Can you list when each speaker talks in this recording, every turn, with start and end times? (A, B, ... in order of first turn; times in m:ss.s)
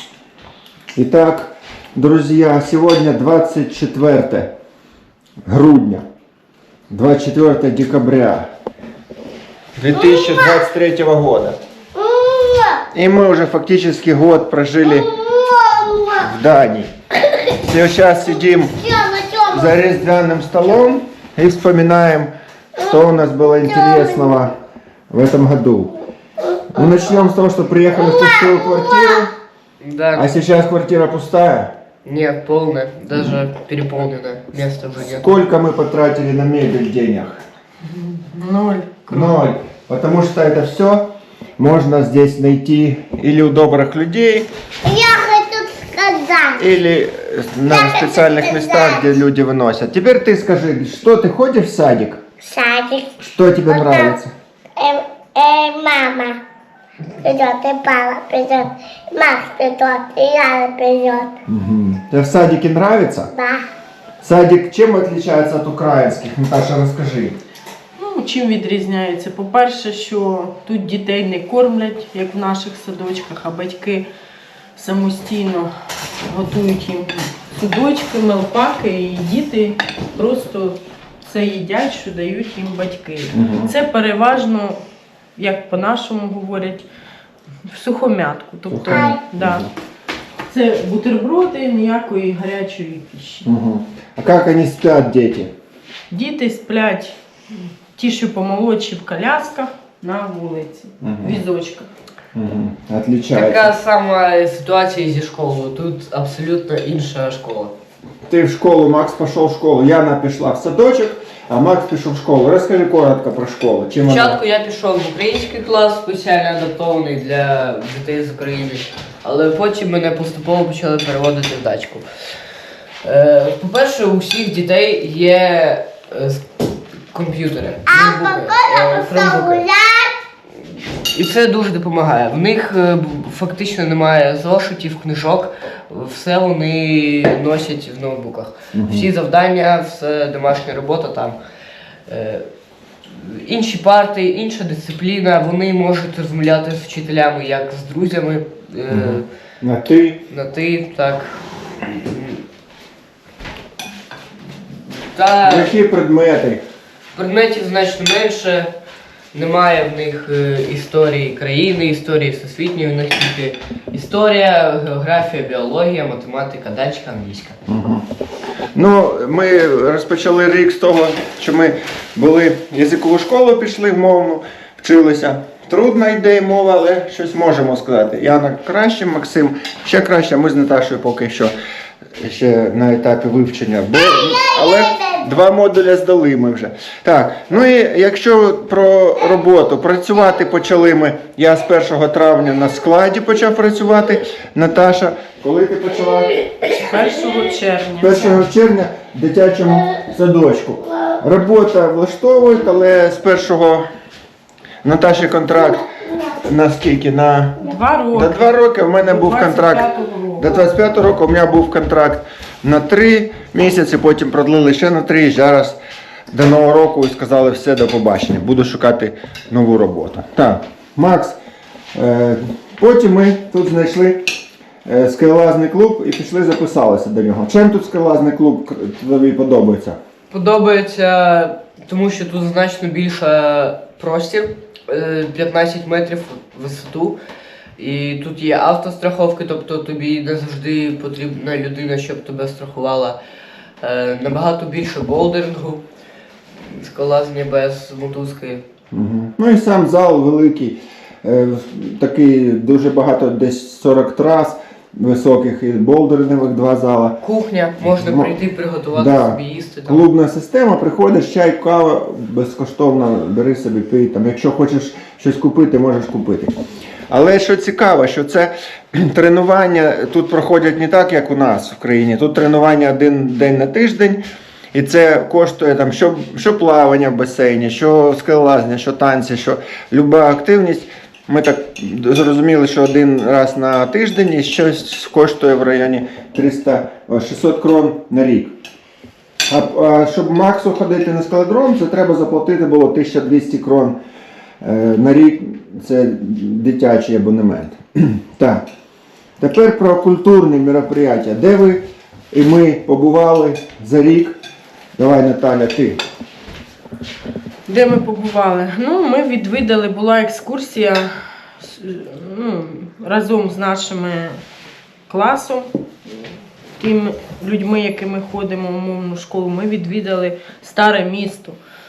0:01.0-0:04.5 A
0:05.5-0:06.0 A
0:06.9-0:08.5 A
0:09.8-0:11.6 A
0:10.0-0:10.6 B
0:12.0-0:12.8 B
0:12.9-0:15.1 A
0:15.1-0:16.2 B
0:16.2-0:16.9 A
0:17.5-0:18.8 A
0:18.9-0:19.6 B
0:19.5-0:24.5 A
0:23.8-0:24.2 B
0:25.1-0:25.9 A
0:26.7-0:29.3 A
0:29.8-0:30.3 C
0:30.1-0:31.7 A
0:32.0-0:35.4 C
0:35.0-0:37.4 A
0:37.9-0:39.5 D
0:39.1-0:44.5 A
0:44.8-0:46.6 B
0:46.6-0:52.2 A
0:47.7-0:49.1 B
0:52.4-0:53.2 B
0:53.2-0:54.3 A
0:53.7-0:54.2 B
0:54.8-0:56.4 B
0:57.2-1:01.3 B
1:01.5-1:03.3 A
1:03.3-1:03.6 B
1:04.2-1:07.4 A
1:08.0-1:14.1 D
1:14.8-1:15.7 D
1:16.3-1:24.8 D
1:23.3-1:23.7 A
1:25.4-1:26.9 D
1:27.7-1:29.7 D
1:28.7-1:29.7 A
1:28.9-1:29.2 B
1:30.5-1:33.5 D
1:33.4-1:35.5 A
1:36.1-1:37.2 D
1:38.0-1:41.9 D
1:41.0-1:41.4 A
1:42.3-1:43.7 A
1:43.3-1:47.7 C
1:48.3-1:54.4 A
1:54.0-2:02.0 C
2:03.0-2:06.5 C
2:07.1-2:09.7 C
2:07.9-2:10.1 B
2:10.6-2:21.4 C
2:18.7-2:19.1 A
2:22.1-2:22.4 C
2:23.1-2:29.3 C
2:28.9-2:30.2 A
2:30.3-2:32.4 C
2:35.1-2:35.7 C
2:35.4-2:36.6 A
2:37.2-2:38.7 C
2:39.3-2:47.6 C
2:47.7-2:48.0 A
2:48.8-3:01.5 A
3:02.2-3:16.7 A
3:04.2-3:05.0 B
3:16.9-3:18.4 D
3:18.0-3:23.8 A
3:24.8-3:27.6 A
3:27.6-3:30.5 D
3:28.1-3:29.8 A
3:30.4-3:35.8 A
3:36.3-3:41.4 A
3:42.0-3:44.3 A
3:44.8-3:50.0 A
3:50.3-3:57.2 C
3:57.8-4:03.2 C
4:03.8-4:05.8 C
4:06.7-4:08.6 C
4:08.9-4:17.2 A
4:17.2-4:20.0 C
4:17.8-4:18.4 A
4:18.9-4:26.6 A
4:27.1-4:34.2 A
4:34.7-4:48.5 A
4:49.5-4:54.0 A
4:54.6-4:58.6 A
4:59.4-5:04.4 A
5:05.0-5:06.0 A
5:07.7-5:14.4 D
5:15.1-5:15.7 D
5:16.8-5:21.6 D